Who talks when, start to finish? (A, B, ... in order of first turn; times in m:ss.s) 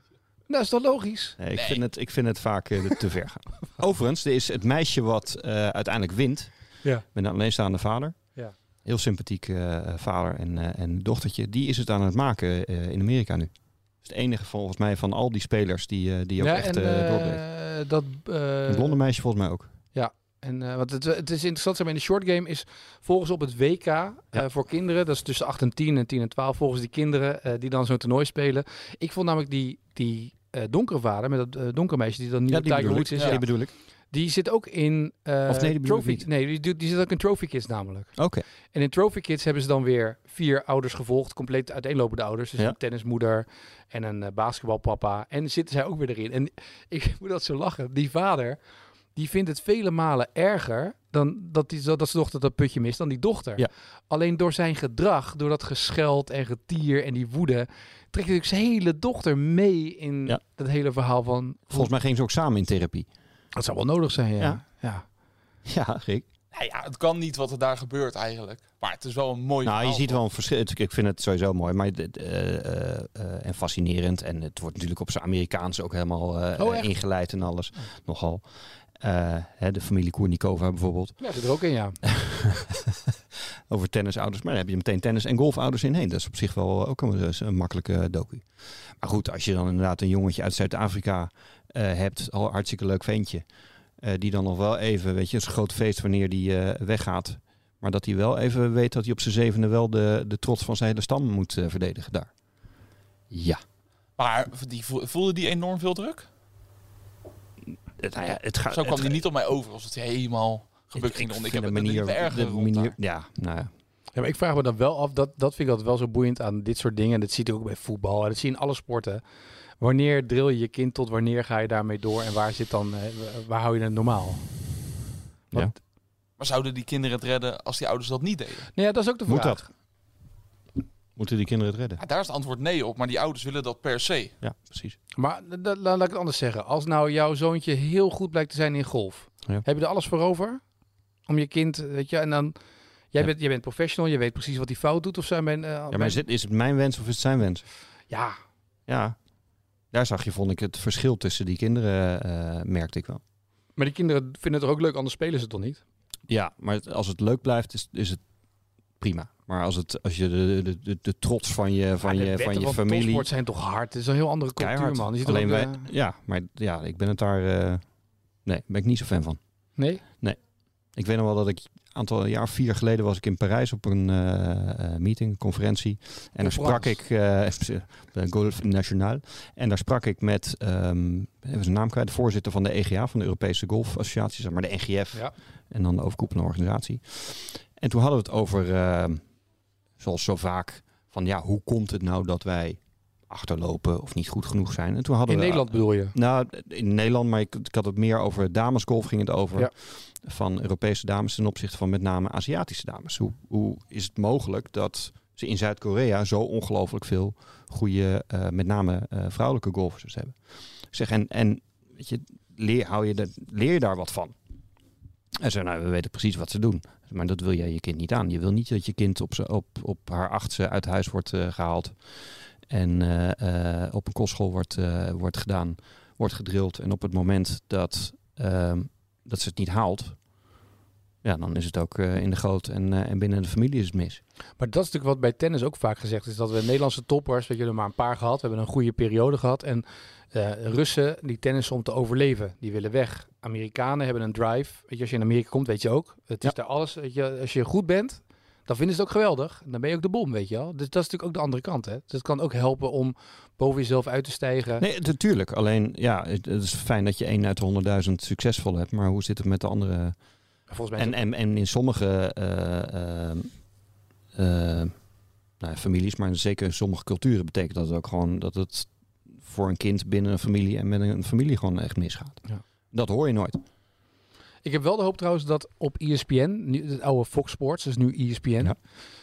0:00.5-0:01.4 A
0:01.4-0:06.5 B
0:01.6-0:01.8 C
0:07.1-0:08.2 B
0:08.8-0:13.5 B
0:14.0-0:17.4 B
0:16.4-0:19.0 A
0:18.7-0:19.7 B
0:19.9-0:33.5 A
0:32.5-0:33.7 B
0:34.1-0:38.1 A
0:35.5-0:36.3 B
0:38.2-0:38.4 B
0:38.7-0:48.6 A
0:49.2-1:01.9 A
1:01.7-1:03.1 B
1:03.6-1:05.0 A
1:05.6-1:06.3 B
1:06.5-1:10.2 C
1:09.6-1:18.4 B
1:16.6-1:16.9 A
1:19.0-1:21.2 B
1:21.2-1:22.0 A
1:22.0-1:23.1 B
1:23.7-1:28.4 B
1:29.0-1:33.4 B
1:34.0-1:42.3 B
1:43.3-1:43.6 B
1:44.2-1:46.3 C
1:48.0-1:49.2 B
1:48.7-1:53.0 C
1:50.9-1:53.7 B
1:54.1-1:59.2 A
1:59.8-2:04.4 A
2:06.4-2:08.7 C
2:08.8-2:09.7 A
2:09.3-2:09.6 B
2:11.2-2:12.0 B
2:12.0-2:14.4 C
2:14.4-2:15.0 B
2:15.2-2:20.6 A
2:21.3-2:22.6 A
2:23.1-2:26.2 A
2:25.9-2:27.6 B
2:28.1-2:28.4 A
2:28.9-2:29.2 B
2:29.9-2:33.2 B
2:33.8-2:35.8 A
2:36.3-2:38.2 B
2:39.0-2:43.3 B
2:42.0-2:45.9 A
2:44.6-2:47.8 B
2:48.4-2:49.4 B
2:49.8-2:50.0 A
2:50.9-3:09.2 B
2:56.4-2:56.9 A
3:10.0-3:30.4 B
3:15.3-3:16.1 A
3:30.9-3:34.3 B
3:35.4-3:42.0 B
3:42.7-3:50.2 B
3:51.2-3:54.2 B
3:54.6-4:14.8 A
4:14.8-4:20.1 B
4:20.7-4:21.1 A
4:21.0-4:23.5 B
4:24.4-4:24.9 B
4:25.6-4:33.6 B
4:34.6-4:38.8 A